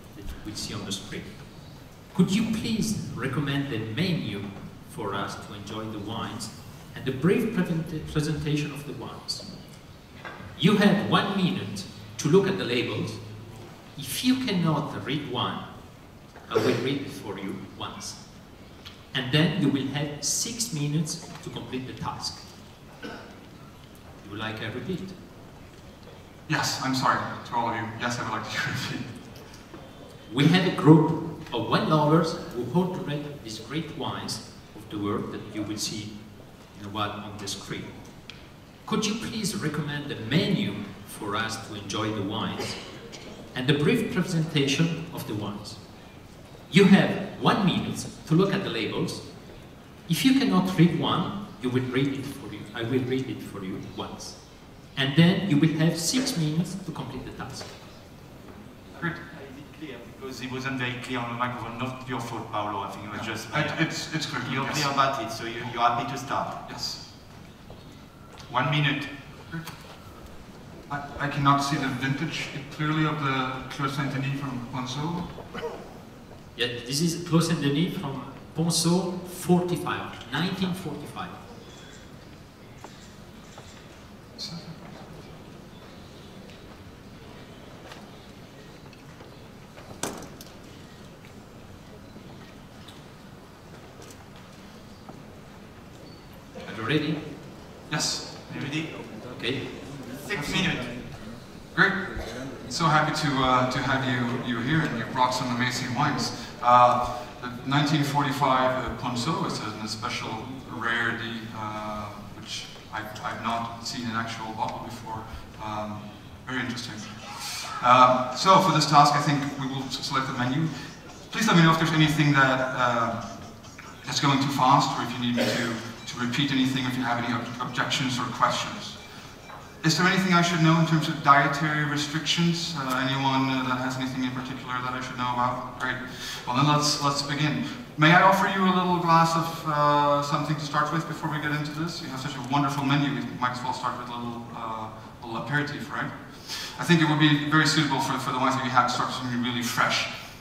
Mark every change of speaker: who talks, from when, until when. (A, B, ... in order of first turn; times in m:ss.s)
0:00.1-0:01.3 A
0:02.1-0:09.5 A
0:10.6-0:13.2 A
0:14.0-0:15.6 A
0:16.5-0:18.2 A
0:19.1-0:22.4 A
0:24.2-0:25.2 A
0:26.5-0:29.1 B
0:30.3-0:36.1 A
0:36.7-0:37.9 A
0:38.8-0:42.8 A
0:43.5-0:45.8 A
0:46.7-0:49.2 A
0:50.1-0:54.4 A
0:54.9-0:57.7 A
0:59.1-1:06.6 C
1:03.1-1:04.9 B
1:06.6-1:07.0 B
1:08.5-1:09.1 C
1:10.9-1:15.3 B
1:16.6-1:21.4 A
1:24.4-1:25.3 B
1:36.6-1:37.2 A
1:37.9-1:38.3 B
1:38.5-1:39.0 C
1:39.3-1:39.8 A
1:40.2-1:41.0 C
1:40.4-1:40.9 B
1:41.7-2:03.2 B
2:04.0-2:09.0 B
2:09.8-2:30.1 B